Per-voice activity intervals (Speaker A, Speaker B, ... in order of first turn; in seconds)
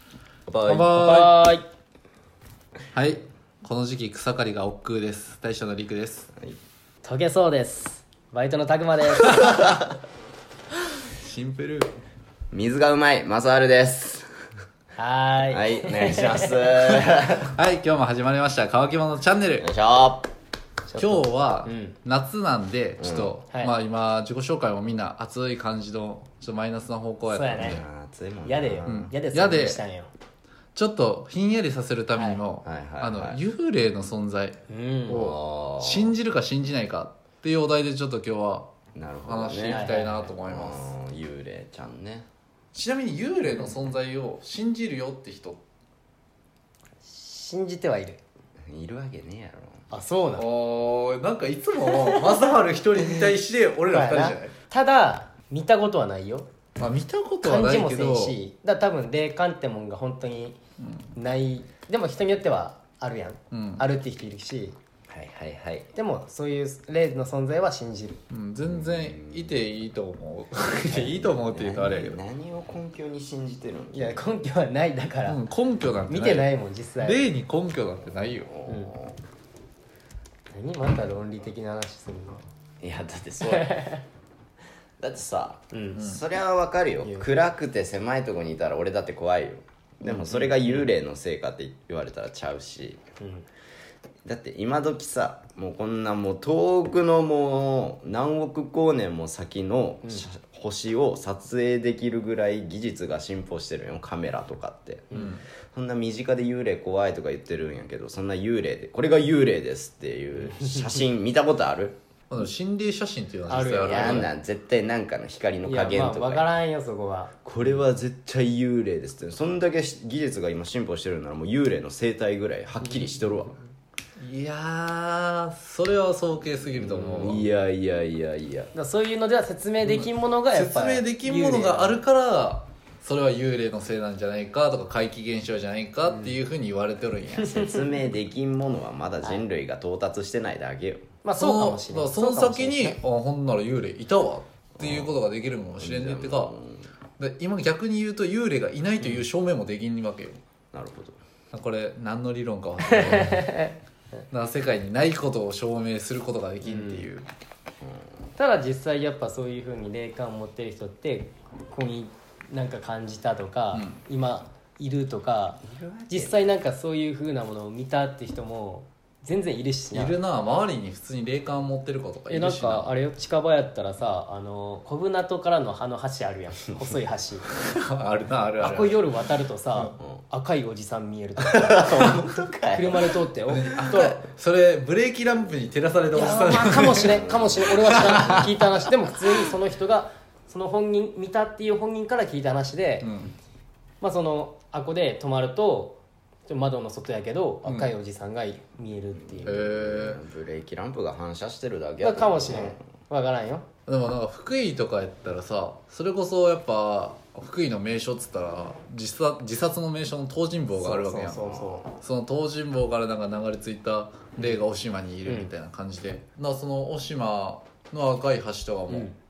Speaker A: 0.5-0.9, 12.5-14.3, 15.5-17.5, 19.6-20.3, 23.0-23.4, 27.6-29.1, 32.6-33.4, 35.1-36.2, 38.9-42.3, 48.7-49.9, 65.1-65.9, 68.7-69.5, 70.9-74.4, 78.4-79.2, 82.8-84.0, 85.0-93.0, 94.2-112.0, 113.8-116.5, 117.5-123.6, 126.8-128.7, 137.5-141.1, 144.8-145.2, 145.8-146.9, 150.7-151.2, 165.6-166.6, 181.4-183.2, 186.8-188.5, 199.1-202.8, 211.5-211.8
Speaker B: 0.7-1.6, 7.0-9.7, 15.0-16.5, 20.9-22.0, 27.3-27.8, 28.4-30.1, 32.1-32.4, 34.7-35.2, 39.6-40.3, 47.0-48.2, 49.9-50.5, 53.9-56.5, 57.4-60.6, 61.1-64.8, 66.0-68.2, 73.9-75.4, 76.1-77.3, 78.7-78.9, 80.5-82.4, 83.4-84.0, 85.7-86.0, 87.0-87.3, 90.1-90.9, 93.2-93.5, 110.4-110.9, 113.5-114.3, 115.6-117.3, 128.7-132.0, 137.4-137.8, 141.2-143.0, 152.9-153.7, 156.6-157.1, 158.4-170.2, 172.3-177.4, 178.6-184.2, 186.1-193.1, 194.0-199.6, 202.0-203.7, 210.8-211.9, 215.3-215.5, 218.9-219.2
Speaker C: 0.8-1.4, 2.9-6.3, 11.2-11.9, 17.0-19.7, 21.0-27.8, 28.9-29.8, 30.8-34.6, 35.1-38.7, 39.3-40.9, 42.7-45.6, 50.4-54.5, 56.8-58.4, 60.8-61.1, 63.5-63.9, 68.3-72.2, 75.3-78.5, 105.1-105.4, 112.3-114.3, 124.2-127.5, 129.8-137.6, 141.4-146.5, 147.2-150.4, 151.5-153.7, 154.3-157.3, 163.7-164.0, 169.9-172.9, 177.6-179.1, 183.5-188.6, 193.0-193.3, 199.4-200.2, 203.9-219.1